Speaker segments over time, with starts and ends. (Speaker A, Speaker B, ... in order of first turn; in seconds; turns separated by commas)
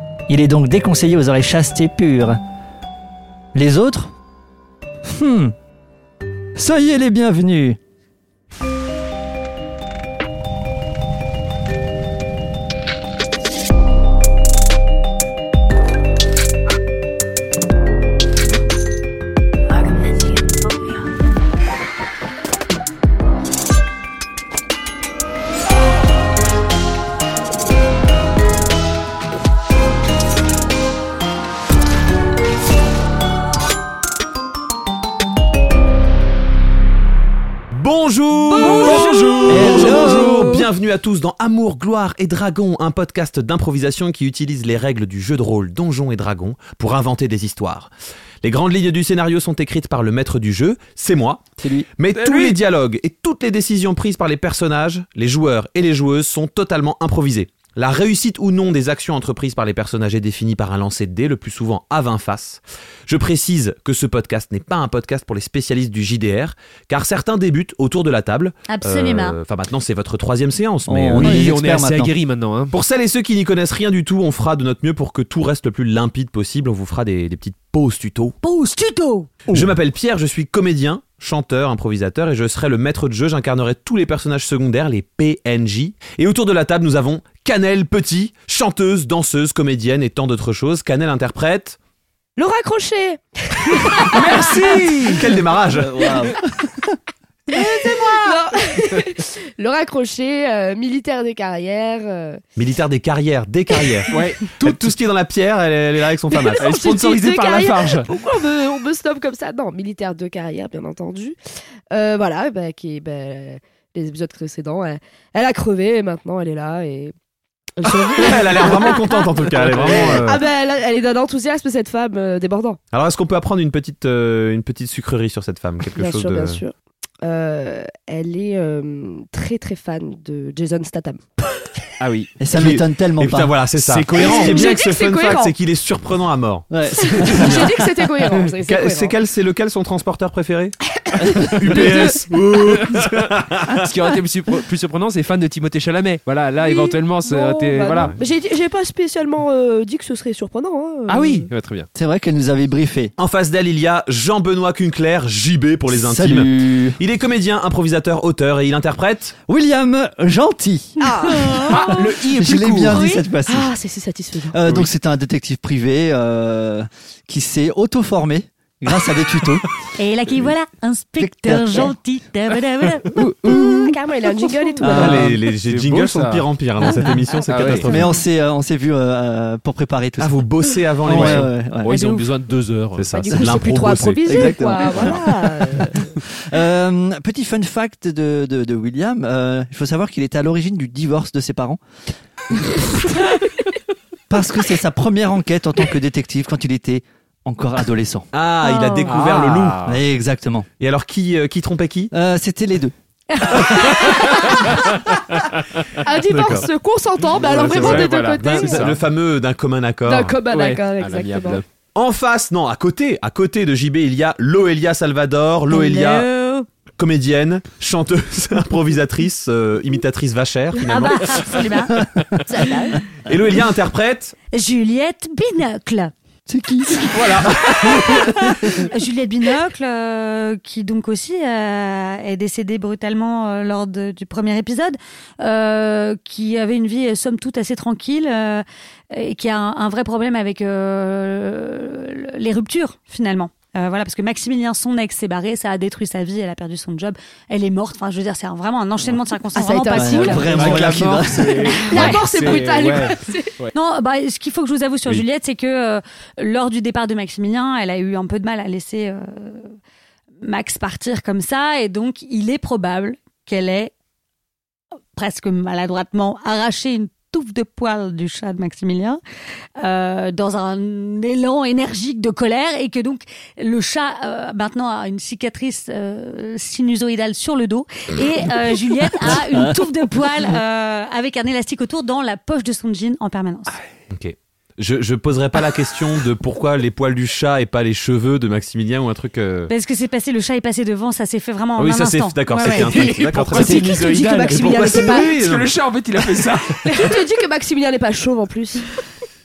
Speaker A: 0.3-2.4, Speaker A: 3.5-4.1, Speaker A: 5.0-5.5, Speaker A: 6.5-7.8, Speaker B: 37.7-47.9, Speaker C: 38.5-40.5, Speaker A: 39.5-40.6, Speaker B: 48.4-51.4, Speaker A: 51.6-51.9, Speaker B: 52.0-71.5, Speaker D: 52.1-52.6, Speaker C: 68.7-69.4, Speaker A: 70.9-72.1, Speaker D: 71.2-72.7, Speaker B: 72.7-78.3, Speaker C: 78.4-79.3, Speaker B: 79.5-91.8, Speaker E: 92.4-94.9, Speaker D: 94.0-95.4, Speaker B: 95.0-95.9, Speaker A: 95.6-96.9, Speaker D: 97.5-99.0, Speaker E: 97.5-102.4, Speaker B: 102.6-107.0, Speaker E: 103.8-104.1, Speaker D: 104.1-104.9, Speaker E: 106.4-111.4, Speaker D: 106.6-108.2, Speaker E: 111.9-117.1, Speaker E: 117.8-122.8, Speaker D: 118.1-118.7, Speaker B: 118.2-120.4, Speaker D: 119.6-120.1, Speaker B: 122.9-126.6, Speaker E: 125.9-131.7, Speaker D: 132.0-132.4, Speaker A: 132.4-133.5, Speaker B: 132.5-137.9, Speaker D: 133.8-134.7, Speaker E: 134.1-135.5, Speaker A: 136.7-137.7, Speaker E: 137.1-139.2, Speaker B: 138.5-140.8, Speaker E: 141.1-142.2, Speaker D: 141.3-148.1, Speaker B: 141.4-143.8, Speaker E: 146.6-151.5, Speaker B: 147.9-148.2, Speaker D: 151.1-151.9, Speaker A: 151.9-153.1, Speaker B: 153.2-159.3, Speaker A: 155.9-157.0, Speaker A: 159.5-160.9, Speaker E: 161.0-162.1, Speaker C: 161.2-161.8, Speaker D: 161.4-163.0, Speaker A: 162.3-163.7, Speaker E: 162.9-164.6, Speaker A: 164.5-169.6, Speaker C: 170.0-173.1, Speaker A: 171.2-171.9, Speaker D: 173.2-173.6, Speaker A: 173.2-173.5, Speaker E: 173.4-175.3, Speaker A: 174.8-175.4, Speaker B: 174.9-178.1, Speaker D: 175.2-176.9, Speaker D: 177.5-177.9, Speaker A: 177.8-180.4, Speaker B: 180.2-181.5, Speaker A: 181.0-181.9, Speaker D: 181.1-183.1, Speaker E: 181.9-182.2, Speaker B: 183.0-184.5, Speaker E: 183.1-186.0, Speaker A: 184.3-191.8, Speaker A: 194.3-198.3, Speaker B: 198.3-199.8, Speaker C: 198.6-199.1, Speaker D: 199.1-200.0, Speaker A: 199.8-200.7, Speaker B: 200.8-202.1, Speaker A: 202.1-202.9, Speaker E: 203.3-204.7, Speaker D: 203.5-206.0, Speaker E: 206.0-209.0, Speaker B: 206.3-206.7, Speaker D: 207.2-209.0, Speaker B: 207.6-210.3, Speaker E: 210.1-211.6, Speaker D: 210.5-211.6, Speaker B: 211.9-216.3, Speaker C: 215.7-216.7, Speaker B: 217.0-221.7, Speaker C: 220.8-222.0, Speaker A: 222.0-222.4, Speaker E: 222.4-223.0, Speaker B: 223.2-224.3, Speaker C: 224.5-226.1, Speaker A: 226.5-227.3, Speaker B: 227.1-228.5, Speaker C: 227.8-250.8, Speaker E: 249.5-253.5, Speaker A: 249.9-251.7, Speaker D: 250.4-253.7, Speaker C: 251.9-252.2, Speaker C: 253.7-259.7, Speaker C: 260.4-263.9, Speaker C: 265.1-269.2, Speaker C: 269.8-283.8, Speaker B: 284.1-289.7, Speaker C: 289.7-293.0, Speaker B: 291.8-294.0, Speaker D: 292.5-297.2, Speaker E: 292.6-295.3, Speaker B: 294.5-295.7, Speaker E: 296.8-298.9